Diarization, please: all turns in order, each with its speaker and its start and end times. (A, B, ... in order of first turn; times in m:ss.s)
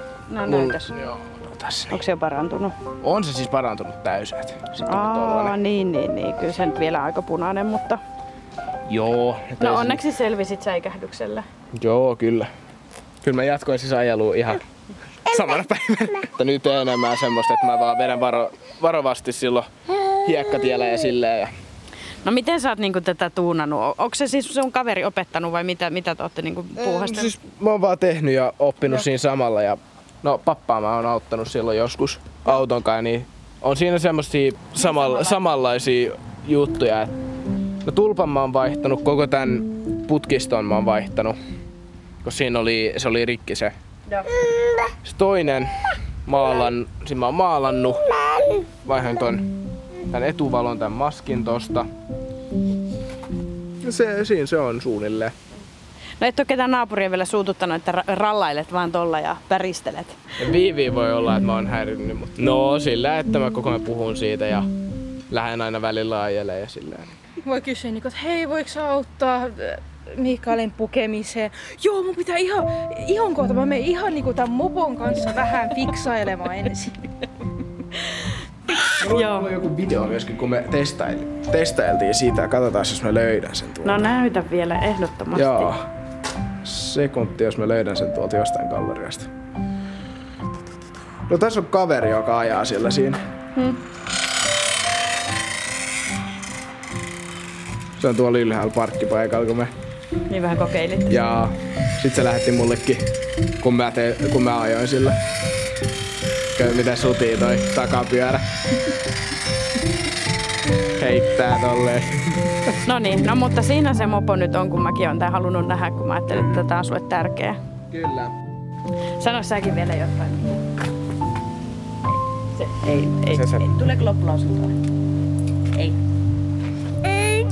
0:00.3-0:00.9 A
0:00.5-0:02.0 B
0:01.9-0:02.7 A
0:03.0-0:05.6 B
0:04.8-0:08.0 A
0:08.9-0:10.0 B
0:09.6-0:11.4 A
0:11.8-0:12.5 B
0:13.2-0:14.6 B
0:15.2-0:21.5 B
0:22.2-0:27.3 A
0:26.8-0:37.1 B
0:34.8-0:35.4 A
0:37.8-0:41.4 B
0:42.2-0:43.7 B
0:45.0-0:48.1 B
0:48.8-0:49.4 B
0:50.1-0:51.9 B
0:53.8-0:55.3 B
0:56.2-1:00.2 A
1:00.4-1:04.7 B
1:05.3-1:07.1 B
1:07.4-1:16.9 C
1:18.0-1:18.3 A
1:19.0-1:24.0 B
1:19.0-1:19.5 A
1:23.8-1:25.7 A
1:25.3-1:25.8 B
1:26.6-1:29.3 B
1:31.3-1:33.2 B
1:38.0-1:39.7 B
1:40.3-1:41.2 A
1:41.1-1:43.1 B
1:43.6-1:45.2 B
1:46.5-1:48.4 B
1:51.0-1:52.8 B
1:52.8-1:57.6 A
1:57.9-1:58.3 B
1:59.2-2:00.6 A
2:02.5-2:04.7 A
2:03.3-2:03.7 B